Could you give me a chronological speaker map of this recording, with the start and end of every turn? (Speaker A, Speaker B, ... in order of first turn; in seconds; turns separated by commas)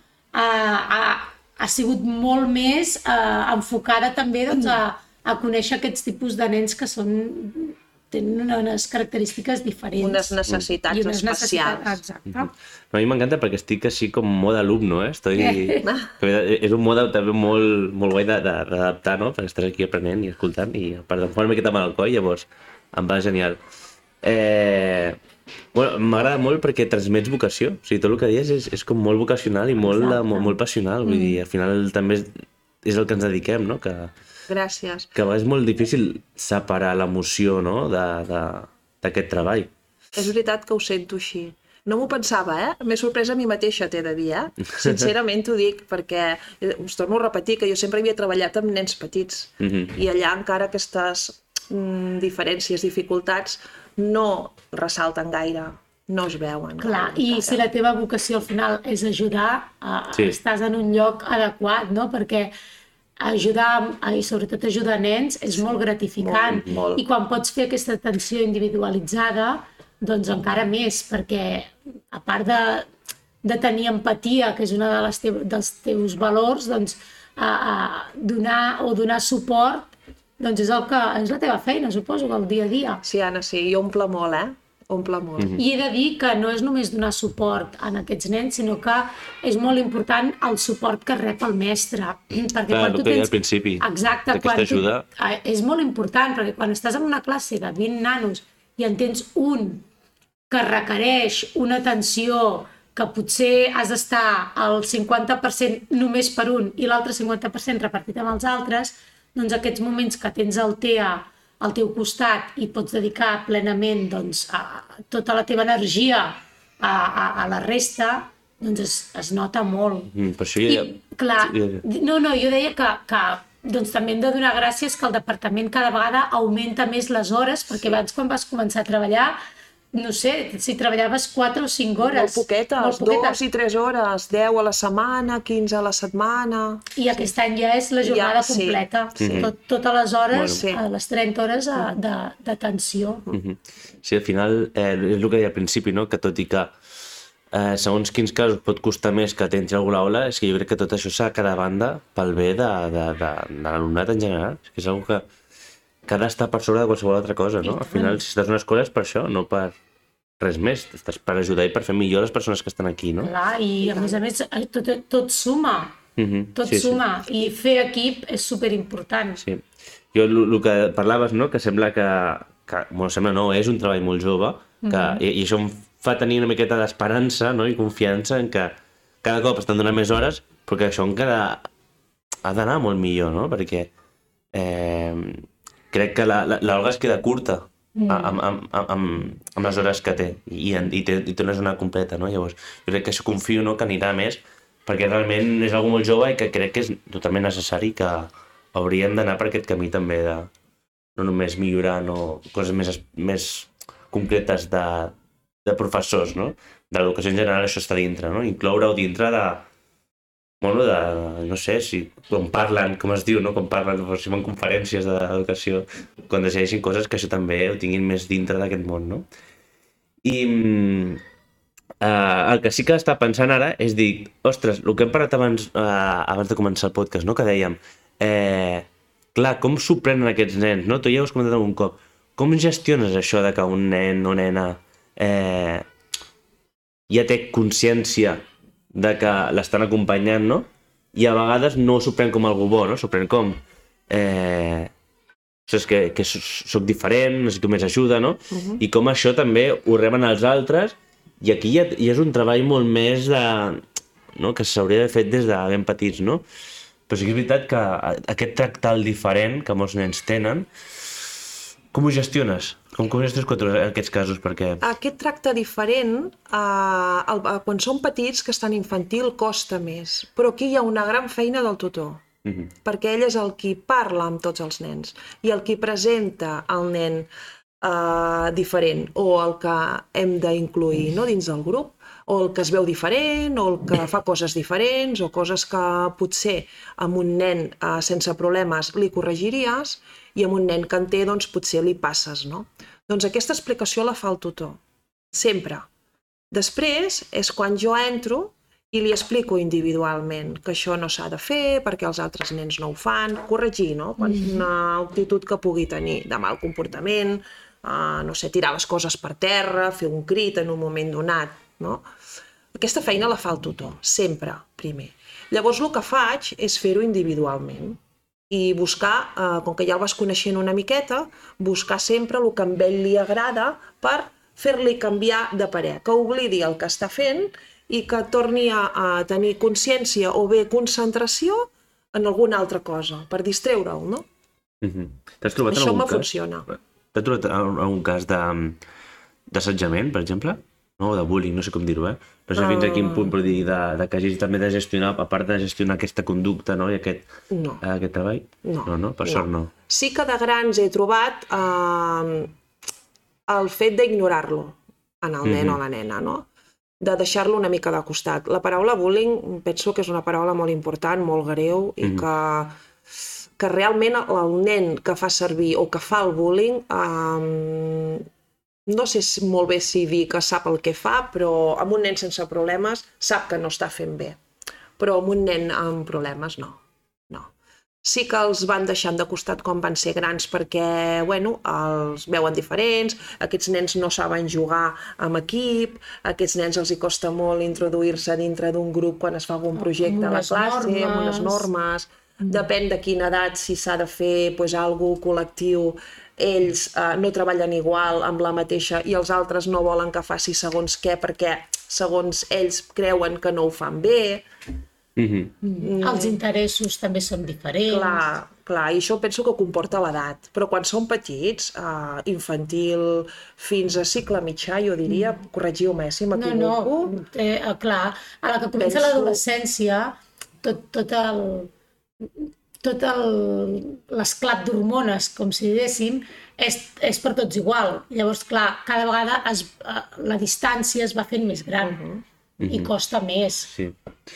Speaker A: 0.3-12.5, Speaker B: 9.9-12.0, Speaker C: 12.3-23.6, Speaker A: 15.3-15.8, Speaker C: 24.2-25.2, Speaker C: 25.7-32.3, Speaker A: 29.9-30.4, Speaker B: 30.0-30.4, Speaker A: 31.1-31.4, Speaker C: 32.8-34.1, Speaker B: 34.5-35.1, Speaker C: 35.1-39.7, Speaker B: 40.1-57.7, Speaker C: 49.6-49.9, Speaker A: 56.8-62.5, Speaker A: 63.2-72.8, Speaker B: 65.5-67.0, Speaker A: 73.4-83.0, Speaker B: 83.0-85.6, Speaker A: 85.5-99.8, Speaker C: 92.7-95.0, Speaker A: 100.5-120.1, Speaker C: 120.1-121.8, Speaker A: 120.7-129.3, Speaker A: 129.9-133.4, Speaker B: 132.0-137.3, Speaker A: 136.9-143.2, Speaker B: 138.0-139.5, Speaker C: 139.2-139.5, Speaker C: 140.3-140.6, Speaker B: 140.5-140.8, Speaker C: 143.3-146.7, Speaker C: 147.5-155.2, Speaker C: 156.1-159.7, Speaker A: 157.6-158.2, Speaker C: 160.4-163.3, Speaker A: 163.2-165.9, Speaker B: 163.8-164.3, Speaker C: 166.2-167.0, Speaker A: 166.5-169.4, Speaker C: 170.1-181.7, Speaker A: 174.8-175.2, Speaker C: 182.4-183.9, Speaker C: 184.5-200.5, Speaker A: 188.0-188.4, Speaker C: 201.2-205.1, Speaker C: 205.6-209.7, Speaker C: 210.6-219.3, Speaker C: 220.2-221.2, Speaker C: 222.0-235.8, Speaker C: 237.1-238.4, Speaker C: 238.9-244.9, Speaker C: 245.7-253.8, Speaker B: 248.5-248.8, Speaker C: 254.3-256.4, Speaker C: 257.1-260.7, Speaker C: 261.9-264.8, Speaker B: 264.8-272.2, Speaker C: 272.4-272.7, Speaker B: 272.8-277.3, Speaker B: 277.8-294.8, Speaker B: 295.3-295.9, Speaker B: 296.5-312.0, Speaker A: 304.2-304.6, Speaker B: 312.7-334.2, Speaker C: 334.8-336.3, Speaker B: 335.6-336.7, Speaker C: 337.1-338.8, Speaker C: 339.5-347.2, Speaker B: 342.5-343.3, Speaker B: 347.5-347.8, Speaker C: 347.8-349.7, Speaker B: 348.6-352.5, Speaker B: 353.5-356.4, Speaker C: 355.4-355.8, Speaker B: 357.0-362.8, Speaker B: 363.6-368.2, Speaker B: 368.9-374.4, Speaker B: 375.0-377.5, Speaker B: 378.0-404.4, Speaker A: 389.7-391.7, Speaker C: 405.1-405.5, Speaker A: 405.6-408.3, Speaker B: 405.8-406.4, Speaker B: 407.9-417.1, Speaker A: 415.1-415.3, Speaker A: 416.3-421.7, Speaker B: 418.8-419.4, Speaker A: 422.4-432.0, Speaker B: 431.8-432.2, Speaker C: 432.6-432.9, Speaker A: 432.7-433.7, Speaker C: 433.7-434.0